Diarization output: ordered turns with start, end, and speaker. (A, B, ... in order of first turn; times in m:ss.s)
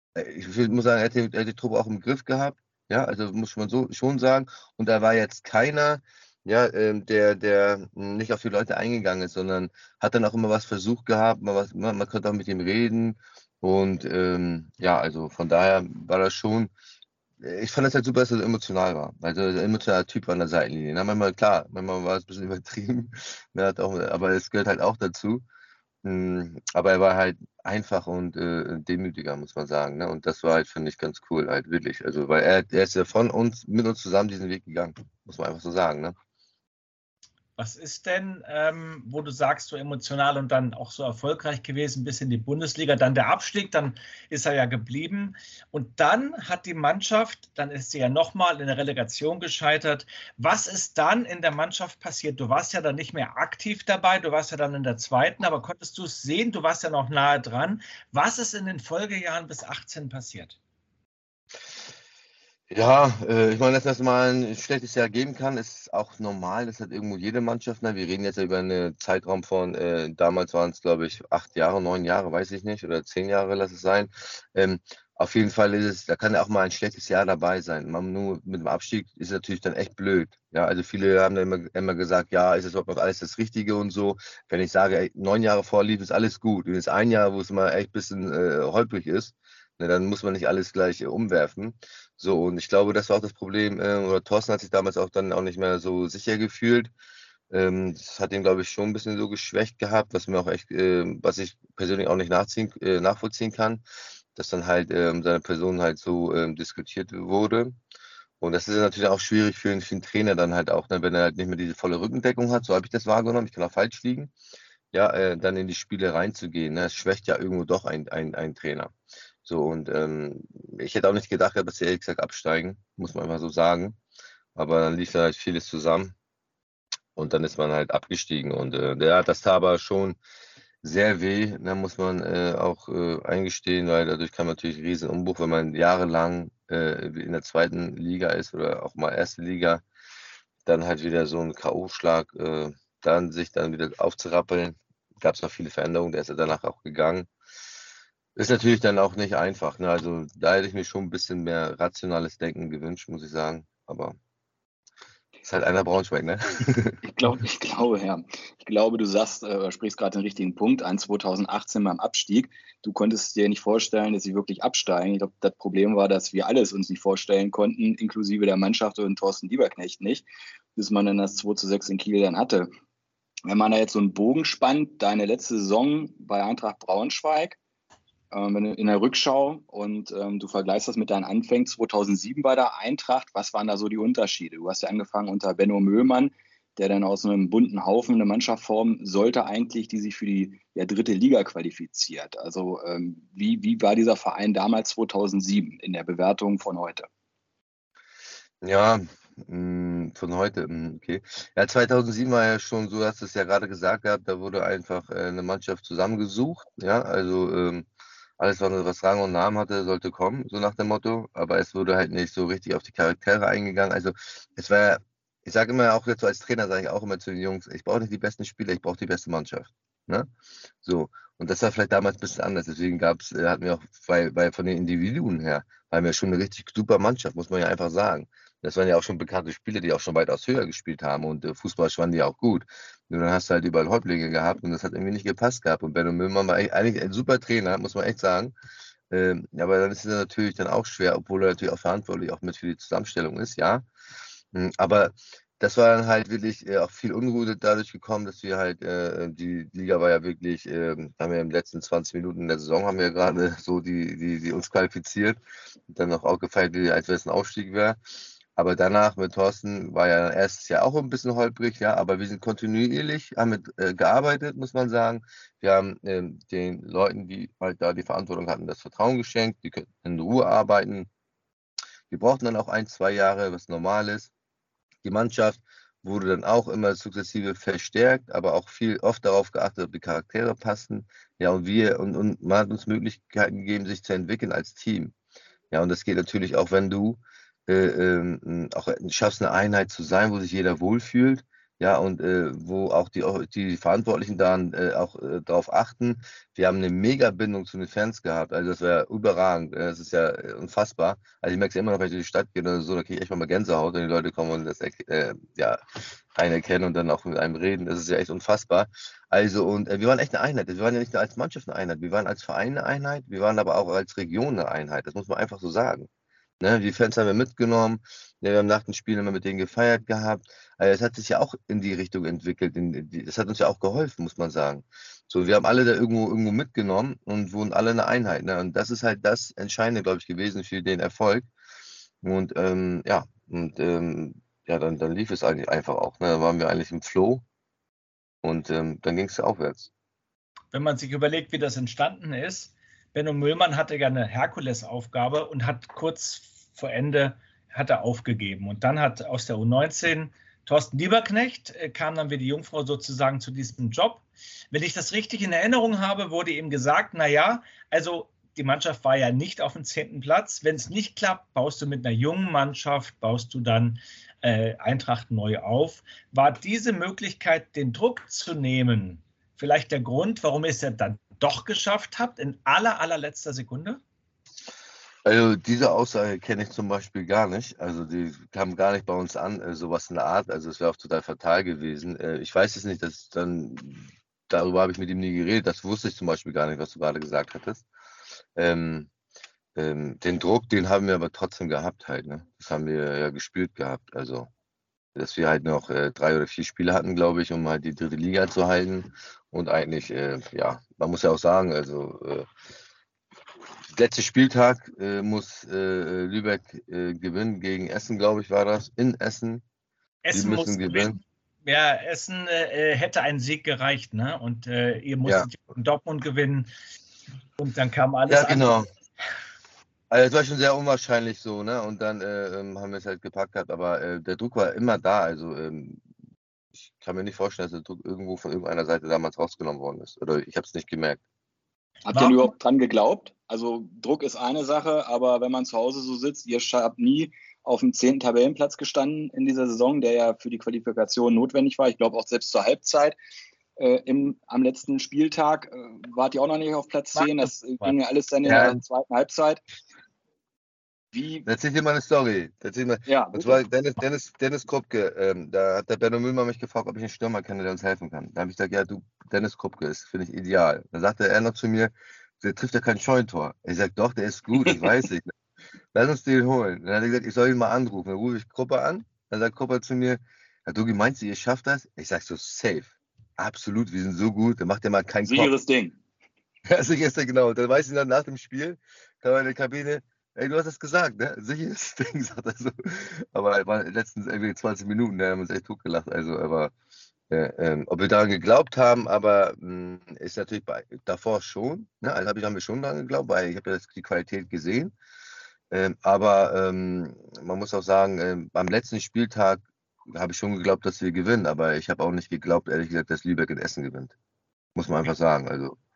0:00.2-0:16.7 A
0:17.4-0:25.4 A
0:26.0-0:36.2 A
0:37.6-1:00.6 B
1:02.7-1:36.9 A
1:37.5-1:43.8 A
1:44.3-1:47.8 A
1:48.4-1:54.3 A
1:54.9-1:58.9 A
1:59.4-2:04.0 A
2:04.6-2:06.1 A
2:07.2-2:10.2 A
2:10.8-2:19.8 A
2:20.6-2:27.3 A
2:28.4-2:34.1 A
2:35.4-2:37.0 A
2:37.0-2:52.7 C
2:53.4-2:57.6 C
2:58.3-3:17.1 C
3:18.6-3:27.9 A
3:28.4-3:40.3 A
3:40.8-3:58.5 A
3:59.1-4:03.9 A
4:04.5-4:15.4 A
4:15.9-4:18.0 A
4:18.6-4:31.1 A
4:32.1-4:34.3 A
4:35.0-4:45.1 A
4:45.7-5:05.8 A
5:06.3-5:16.1 A
5:16.6-5:31.5 A
5:32.2-5:37.4 A
5:38.4-5:39.9 A
5:40.7-6:14.0 B
6:15.2-6:27.8 A
6:28.6-6:29.1 A
6:29.8-6:34.5 A
6:35.1-6:42.5 A
6:43.9-6:49.6 A
6:50.2-6:56.7 B
6:50.3-6:51.2 A
6:57.6-6:58.8 B
6:58.3-6:58.9 A
7:00.1-7:06.0 A
7:06.8-7:11.2 A
7:12.1-7:23.2 C
7:12.1-7:12.5 B
7:23.8-7:29.6 C
7:27.2-7:27.9 B
7:28.4-7:28.8 A
7:31.1-7:31.5 C
7:31.4-7:45.3 A
7:33.0-7:33.6 C
7:45.9-7:55.5 A
7:55.2-7:56.0 C
7:56.7-8:06.7 A
8:07.3-8:14.9 A
8:15.7-8:24.1 A
8:24.7-8:25.8 A